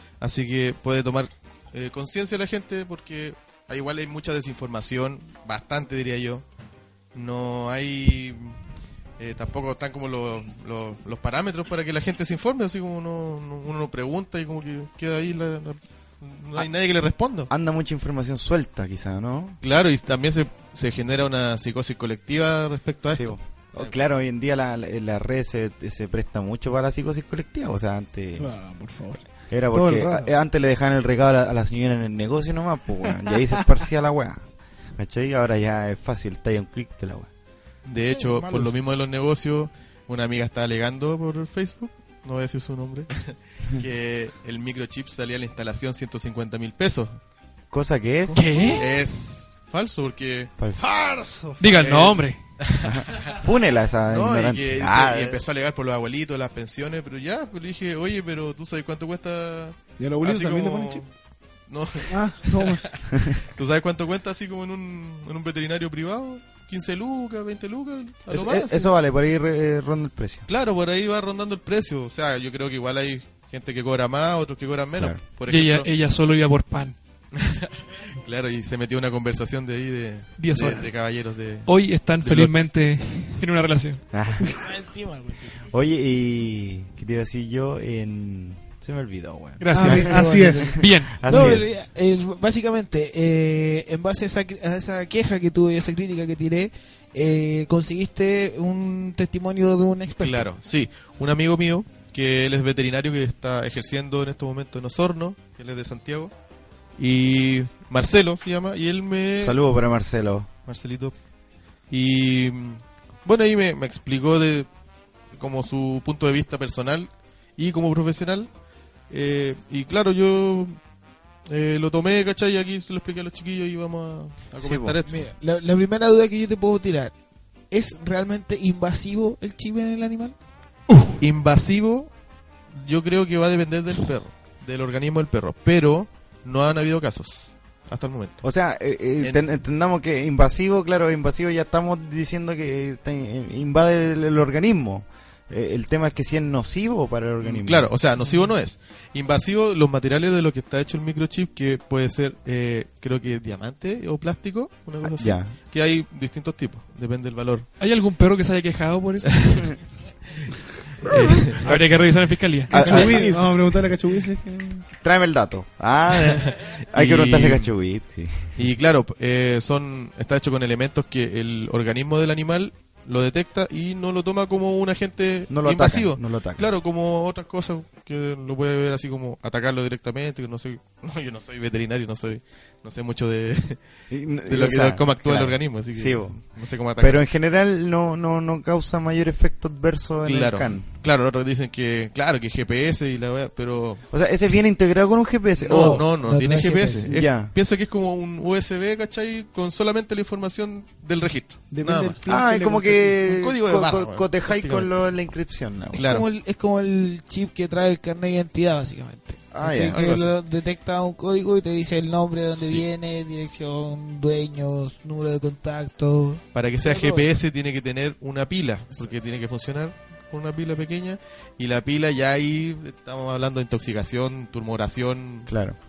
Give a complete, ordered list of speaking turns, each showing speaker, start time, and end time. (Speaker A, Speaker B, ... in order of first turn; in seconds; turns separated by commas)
Speaker A: 0.2-6.4, Speaker A: 7.1-8.6, Speaker A: 9.2-17.5, Speaker B: 17.5-19.6, Speaker A: 19.6-23.9, Speaker B: 23.1-28.5, Speaker C: 28.4-28.9, Speaker D: 28.6-29.2, Speaker B: 29.5-34.4, Speaker D: 29.7-30.3, Speaker B: 35.0-37.3, Speaker A: 37.8-47.2, Speaker C: 38.1-38.7, Speaker B: 47.7-48.5, Speaker C: 48.3-48.9, Speaker E: 48.3-48.9, Speaker A: 48.6-50.5, Speaker B: 50.6-50.9, Speaker D: 50.8-51.8, Speaker E: 51.6-52.4, Speaker A: 51.8-53.3, Speaker B: 52.8-55.4, Speaker A: 54.1-61.1, Speaker D: 60.0-61.0, Speaker A: 61.7-68.9, Speaker D: 62.1-63.0, Speaker B: 63.1-63.4, Speaker B: 68.3-70.5, Speaker A: 70.5-75.9, Speaker B: 74.9-75.2, Speaker E: 75.5-76.9, Speaker A: 77.3-82.7, Speaker E: 80.4-81.0, Speaker E: 81.7-84.0, Speaker B: 84.1-84.6, Speaker C: 84.6-85.6, Speaker B: 85.7-90.2, Speaker E: 89.6-91.6, Speaker D: 89.7-90.8, Speaker C: 89.7-100.5, Speaker B: 90.8-91.7, Speaker A: 100.2-106.3, Speaker A: 107.0-109.6, Speaker B: 109.4-110.5, Speaker A: 110.7-111.1, Speaker A: 111.9-114.7, Speaker A: 115.3-118.5, Speaker A: 119.1-120.8, Speaker A: 121.5-125.3, Speaker B: 124.6-125.0, Speaker C: 125.1-127.1, Speaker C: 127.7-130.3, Speaker A: 131.2-132.1, Speaker A: 132.7-138.4, Speaker B: 138.4-147.9, Speaker A: 147.4-157.7, Speaker B: 155.0-155.5, Speaker E: 157.8-159.8, Speaker A: 159.3-159.7, Speaker A: 161.1-161.6, Speaker E: 161.1-163.3, Speaker B: 161.6-162.1, Speaker B: 162.7-163.3, Speaker D: 162.7-164.8, Speaker B: 164.9-168.6, Speaker A: 166.3-167.7, Speaker A: 168.6-183.8, Speaker B: 175.5-176.7, Speaker B: 184.1-186.4, Speaker A: 184.4-187.2, Speaker B: 187.0-190.8, Speaker A: 190.2-194.0, Speaker B: 194.1-196.0, Speaker A: 195.6-202.2, Speaker C: 195.7-197.1, Speaker B: 197.1-197.5, Speaker D: 201.7-203.2, Speaker B: 202.2-206.0, Speaker A: 203.2-204.9, Speaker A: 205.9-206.2, Speaker C: 205.9-217.3, Speaker B: 209.5-210.0, Speaker A: 209.9-210.3, Speaker A: 212.6-212.8, Speaker A: 216.5-225.5, Speaker B: 225.5-225.8